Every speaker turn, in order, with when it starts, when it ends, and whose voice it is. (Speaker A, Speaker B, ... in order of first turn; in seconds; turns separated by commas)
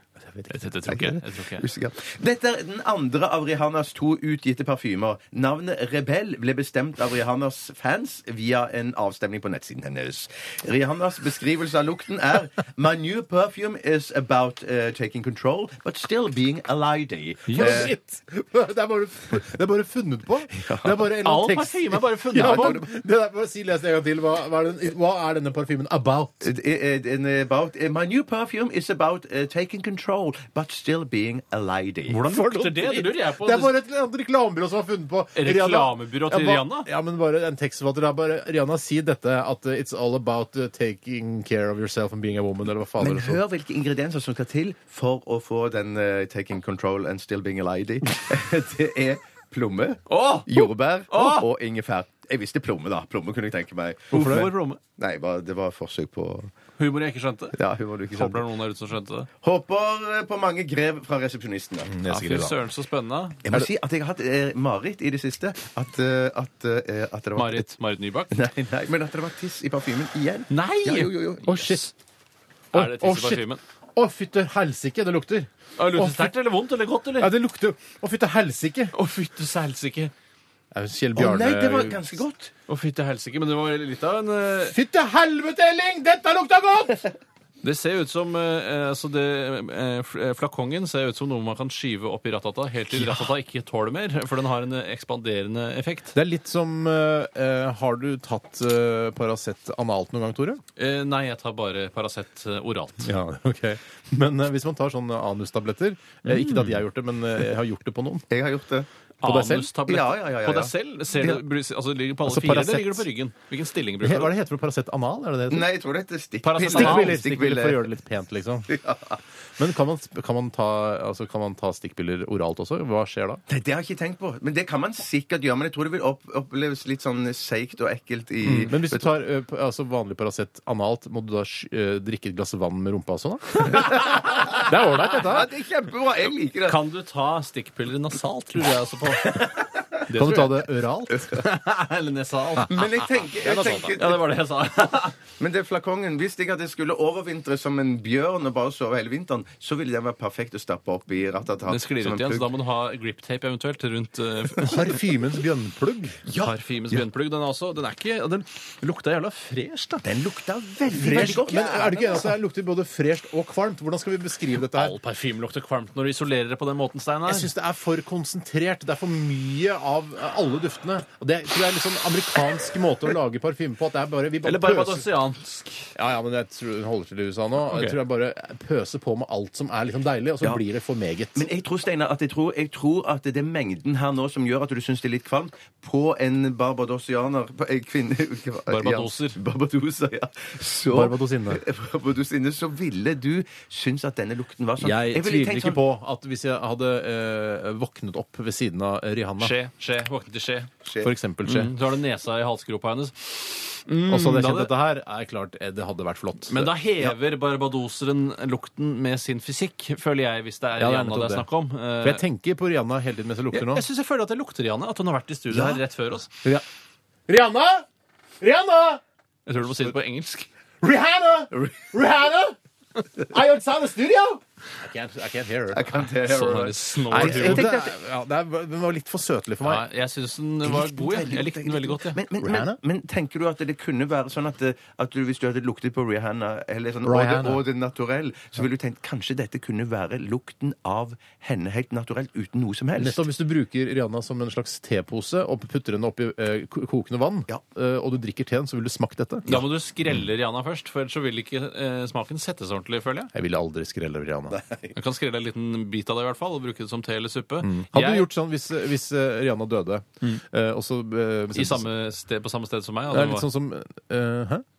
Speaker A: 0.2-0.5, Speaker B: 0.5-1.7, Speaker C: 0.9-17.9, Speaker B: 17.5-17.8, Speaker A: 17.5-26.5, Speaker C: 20.6-21.0, Speaker B: 21.2-22.8, Speaker C: 22.3-22.9, Speaker C: 26.4-32.2, Speaker B: 32.1-33.7, Speaker A: 32.3-43.4, Speaker B: 35.4-36.9, Speaker C: 43.0-56.5, Speaker B: 50.1-51.5, Speaker B: 54.1-54.8, Speaker A: 54.1-54.5, Speaker B: 56.8-57.5, Speaker C: 57.5-58.4, Speaker B: 58.1-59.3, Speaker C: 59.4-61.9, Speaker A: 61.9-62.6, Speaker B: 62.0-63.4, Speaker C: 63.4-67.7, Speaker B: 67.3-68.4, Speaker C: 68.3-71.6, Speaker B: 70.5-71.9, Speaker A: 71.4-71.9, Speaker A: 72.7-76.3, Speaker B: 72.7-73.6, Speaker B: 75.8-77.3, Speaker A: 77.2-78.9, Speaker B: 78.9-80.1, Speaker A: 80.7-82.0, Speaker C: 81.1-82.5, Speaker B: 82.7-84.8, Speaker A: 84.7-87.1, Speaker B: 87.6-96.1, Speaker A: 93.0-93.2, Speaker A: 96.1-100.6, Speaker B: 100.8-103.1, Speaker A: 103.0-108.3, Speaker B: 106.3-106.7, Speaker C: 108.3-108.9, Speaker B: 109.2-114.3, Speaker A: 109.2-109.7, Speaker C: 109.8-111.4, Speaker A: 112.2-113.0, Speaker A: 114.0-115.7, Speaker C: 115.5-117.8, Speaker B: 116.4-117.2, Speaker A: 116.6-118.8, Speaker C: 118.7-119.2, Speaker A: 119.6-123.4, Speaker C: 123.5-129.1, Speaker A: 128.4-135.5, Speaker C: 134.1-134.6, Speaker C: 135.1-136.8, Speaker B: 136.6-139.5, Speaker B: 140.1-140.7, Speaker A: 140.1-141.4, Speaker B: 141.2-142.8, Speaker C: 142.7-144.2, Speaker B: 143.4-145.2, Speaker C: 145.4-152.5, Speaker B: 151.6-154.9, Speaker A: 154.6-156.2, Speaker C: 156.3-157.0, Speaker B: 156.3-160.0, Speaker C: 160.0-162.3, Speaker A: 160.9-164.9, Speaker B: 164.7-167.5, Speaker A: 167.3-175.1, Speaker B: 174.4-175.9, Speaker A: 175.9-181.4, Speaker B: 177.7-177.9, Speaker C: 181.3-195.8, Speaker B: 188.7-189.4, Speaker A: 190.9-191.6, Speaker A: 194.8-199.5, Speaker B: 199.4-200.7, Speaker C: 200.8-201.1, Speaker A: 201.0-201.7, Speaker B: 201.4-204.7, Speaker A: 204.1-206.7, Speaker B: 206.5-212.2, Speaker A: 210.8-211.5, Speaker A: 212.0-213.8, Speaker B: 213.5-216.3, Speaker C: 215.5-215.8, Speaker A: 217.3-217.8, Speaker A: 218.4-219.0, Speaker B: 219.4-220.5, Speaker A: 220.8-222.6, Speaker A: 223.2-225.8, Speaker C: 225.7-227.9, Speaker B: 226.1-227.7, Speaker A: 227.1-229.8, Speaker B: 229.6-232.2, Speaker C: 230.6-243.2, Speaker A: 232.4-232.8, Speaker A: 237.0-237.6, Speaker A: 242.9-249.6, Speaker B: 249.4-253.3, Speaker A: 253.3-254.6, Speaker C: 254.5-254.9, Speaker B: 254.9-258.3, Speaker A: 257.6-261.9, Speaker B: 261.5-263.5, Speaker A: 263.1-264.6